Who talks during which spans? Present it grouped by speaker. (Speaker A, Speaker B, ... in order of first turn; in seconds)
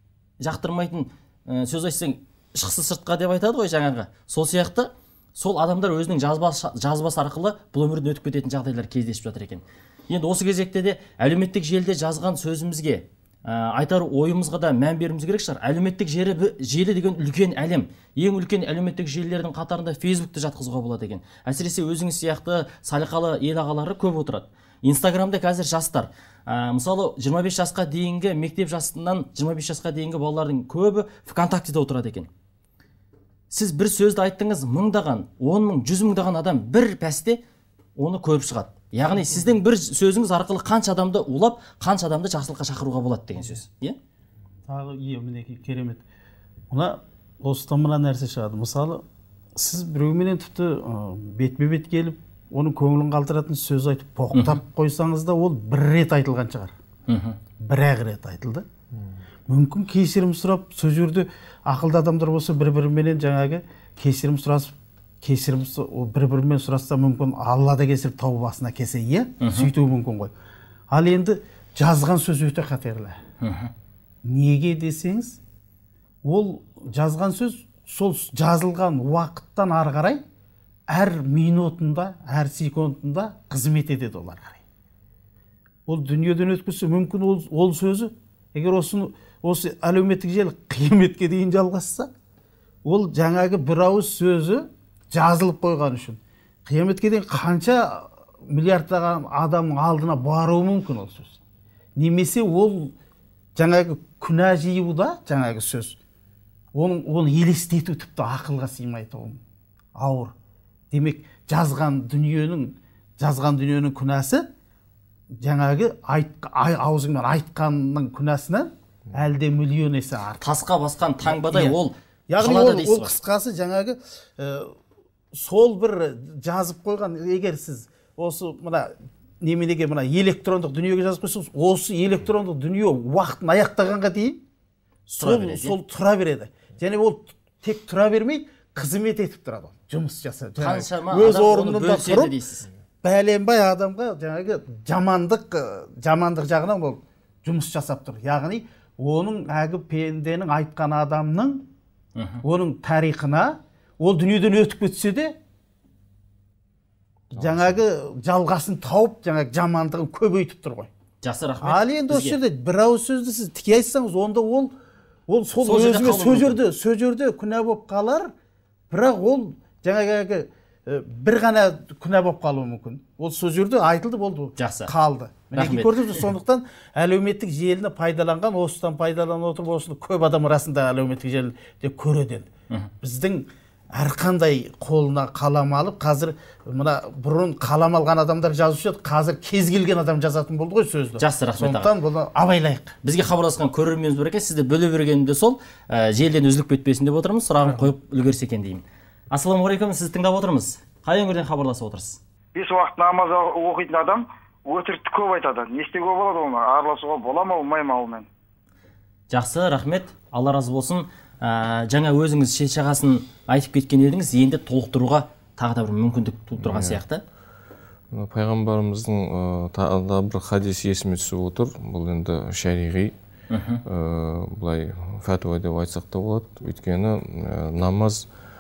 Speaker A: 0.4-32.3, 33.5-37.4, 38.0-44.0, 54.3-54.6, 57.1-57.4, 69.4-69.7, 73.4-73.7, 120.4-123.1, 135.2-135.8, 140.6-142.7, 152.2-152.4, 161.2-162.4, 165.6-166.6, 174.6-174.9, 175.5-176.3, 191.2-191.9, 193.0-202.2, 209.3-217.2, 223.5-223.8
Speaker B: 39.0-39.6, 44.7-46.0, 46.7-49.0, 49.6-56.7, 57.6-58.6, 59.5-70.3, 70.9-73.2, 74.2-75.4, 76.2-80.2, 80.9-84.6, 85.9-92.1, 92.8-101.4, 102.0-102.9, 103.6-106.0, 106.8-109.4, 110.0-110.3, 110.9-114.5, 115.4-120.6, 121.3-121.8, 122.3-124.7, 125.3-134.4, 135.1-142.3, 143.0-151.6, 152.4-155.4, 157.3-160.9, 161.6-164.7, 165.3-168.3, 168.9-182.5, 183.0-192.9
Speaker C: 157.4-157.8, 216.6-217.0, 218.1-223.1, 223.8-228.3
Speaker D: 202.6-208.3